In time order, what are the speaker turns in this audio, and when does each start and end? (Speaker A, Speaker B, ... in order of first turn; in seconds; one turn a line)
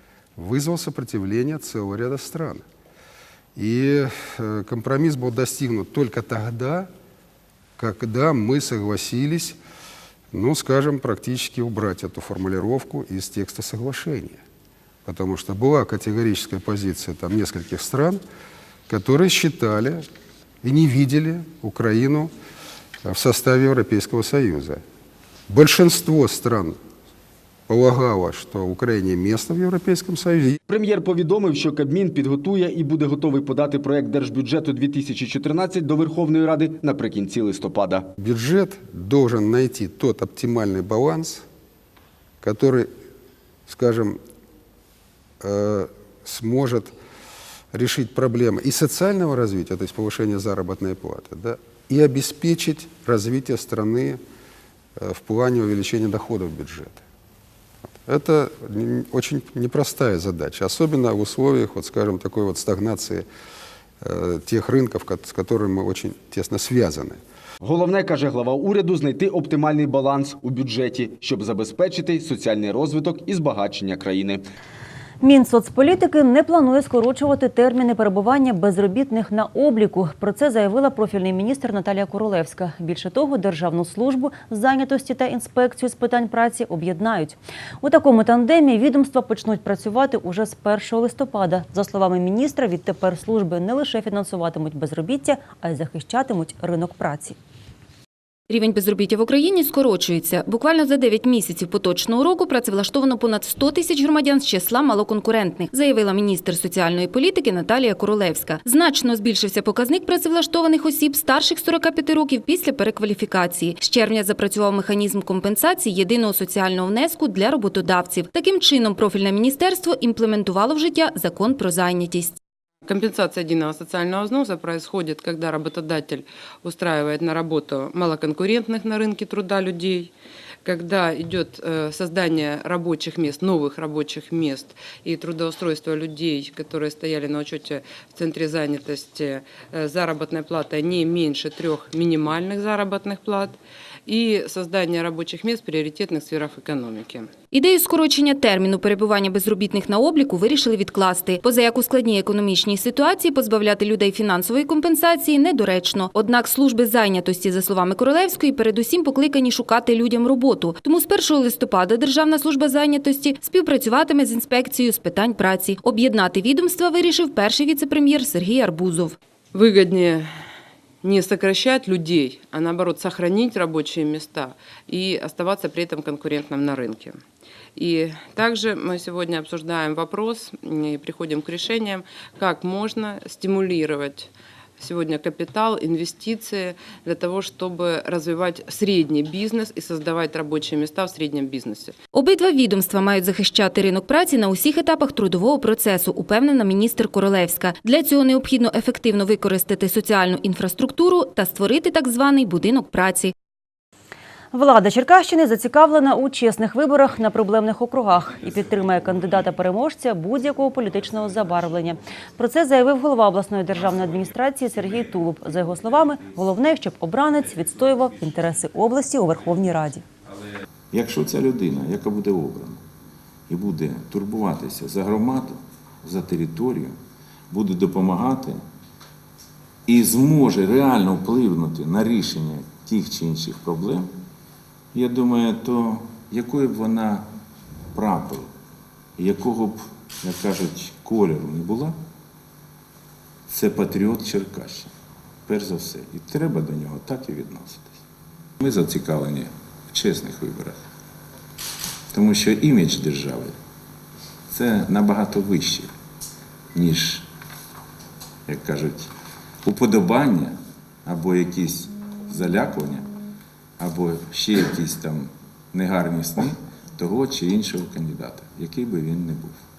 Speaker A: 0.4-2.6
Speaker A: 3.6-6.9
Speaker A: 7.8-9.6
Speaker A: 10.3-14.4
Speaker A: 15.1-18.2
Speaker A: 18.9-20.1
Speaker A: 20.6-22.3
Speaker A: 23.0-24.8
Speaker A: 25.5-26.8
Speaker A: 27.7-30.6
Speaker B: 30.7-38.1
Speaker A: 38.2-41.5
Speaker A: 42.4-42.9
Speaker A: 43.7-44.2
Speaker A: 45.4-47.0
Speaker A: 47.7-54.2
Speaker A: 55.0-57.0
Speaker A: 58.0-63.3
Speaker A: 64.0-67.2
Speaker B: 67.6-74.4
Speaker C: 75.2-97.4
Speaker D: 98.5-122.4
Speaker E: 122.8-130.1
Speaker E: 130.7-147.4
Speaker D: 147.5-169.2
Speaker E: 169.5-170.3
Speaker E: 171.0-177.2
Speaker E: 177.8-192.0
Speaker D: 192.1-203.3
Speaker C: 204.5-220.0
Speaker F: 220.9-222.8
Speaker F: 223.5-227.0
Speaker F: 227.5-228.6
Speaker F: 229.9-234.1
Speaker F: 234.9-237.3
Speaker F: 237.9-238.5
Speaker F: 239.2-242.0
Speaker F: 243.5-244.9
Speaker F: 245.5-248.0
Speaker F: 248.6-250.8
Speaker F: 252.1-253.6
Speaker F: 254.5-255.9
Speaker F: 256.7-257.3
Speaker F: 258.5-259.1
Speaker F: 259.6-263.1
Speaker F: 263.8-269.6